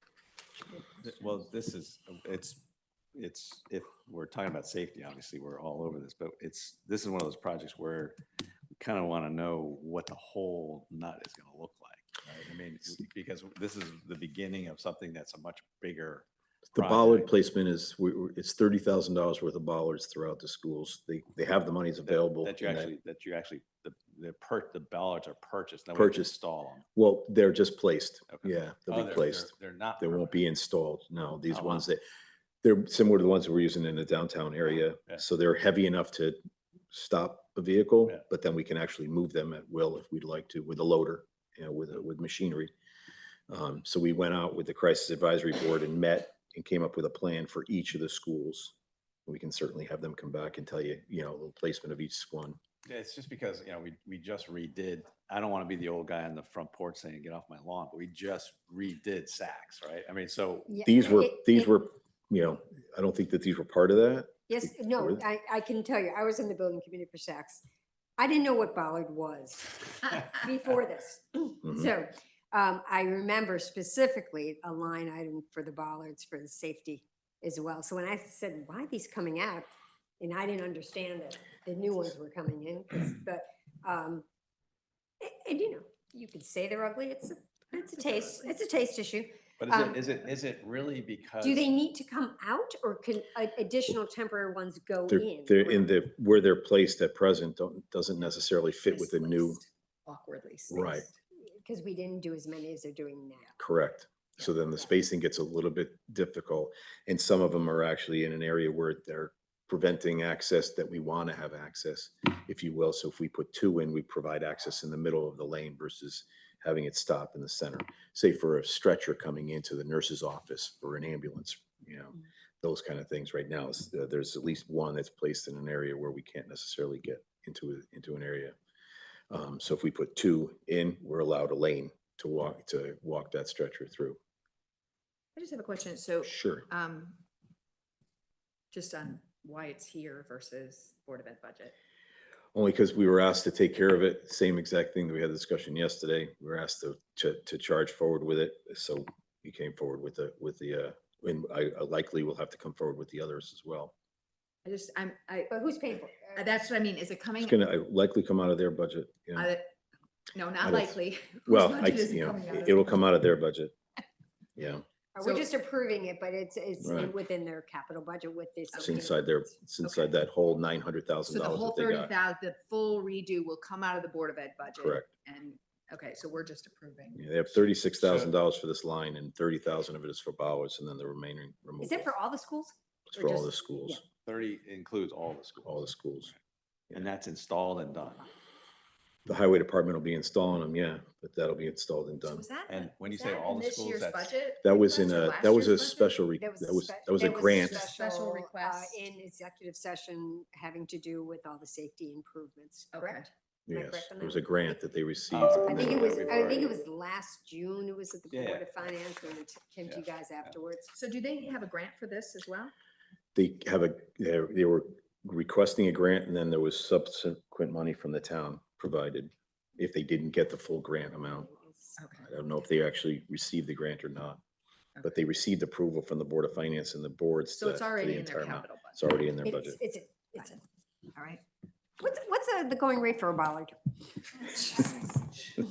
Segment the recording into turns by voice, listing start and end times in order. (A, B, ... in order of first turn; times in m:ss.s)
0:00.8-0:02.6 A
0:03.1-0:08.2 A
0:08.8-0:17.3 A
0:16.8-0:22.9 B
0:22.1-0:26.9 A
0:25.9-0:26.4 B
0:27.0-0:32.0 B
0:28.3-0:30.4 A
0:31.5-0:31.9 A
0:32.6-0:36.4 B
0:36.9-0:42.7 B
0:43.5-0:48.8 B
0:49.3-0:52.6 B
0:52.9-1:00.8 A
1:00.7-1:01.7 C
1:00.8-1:05.2 B
1:04.5-1:07.6 C
1:08.2-1:19.7 C
1:20.2-1:24.2 C
1:25.2-1:30.0 C
1:29.6-1:31.7 A
1:31.4-1:35.9 C
1:35.1-1:39.6 B
1:38.9-1:41.1 D
1:40.7-1:41.1 B
1:41.4-1:43.6 C
1:43.6-2:08.6 B
2:09.3-2:14.2 B
2:15.4-2:17.2 D
2:16.2-2:16.7 B
2:18.7-2:21.7 D
2:22.6-2:33.9 B
2:34.6-2:35.5 D
2:35.5-2:36.5 C
2:36.4-2:37.6 D
2:37.4-2:39.5 B
2:39.4-2:39.7 D
2:40.3-2:42.9 D
2:40.6-2:41.0 B
2:41.5-2:43.8 B
2:44.6-2:44.8 B
2:45.2-2:49.2 C
2:46.8-2:47.1 B
2:48.8-2:49.0 D
2:48.8-2:52.1 B
2:49.8-2:50.1 D
2:51.3-2:57.2 D
2:54.8-2:55.1 B
2:57.2-3:02.1 B
2:58.0-2:58.3 A
3:01.8-3:04.0 C
3:03.1-3:04.0 B
3:04.2-3:05.8 A
3:05.6-3:06.3 B
3:06.9-3:08.3 A
3:09.3-3:12.4 B
3:12.2-3:16.2 D
3:12.7-3:14.3 A
3:14.6-3:17.9 B
3:16.4-3:24.8 C
3:17.5-3:19.0 D
3:22.9-3:23.3 D
3:23.7-3:26.1 B
3:25.3-3:26.8 A
3:25.5-3:30.9 C
3:28.3-3:28.8 A
3:29.9-3:30.6 A
3:30.9-3:32.7 D
3:33.4-3:41.5 B
3:41.2-3:42.0 C
3:42.0-3:42.3 D
3:42.2-3:44.4 B
3:45.0-3:49.8 B
3:47.6-3:49.0 D
3:49.4-3:50.6 C
3:51.2-3:51.4 D
3:52.0-3:55.1 C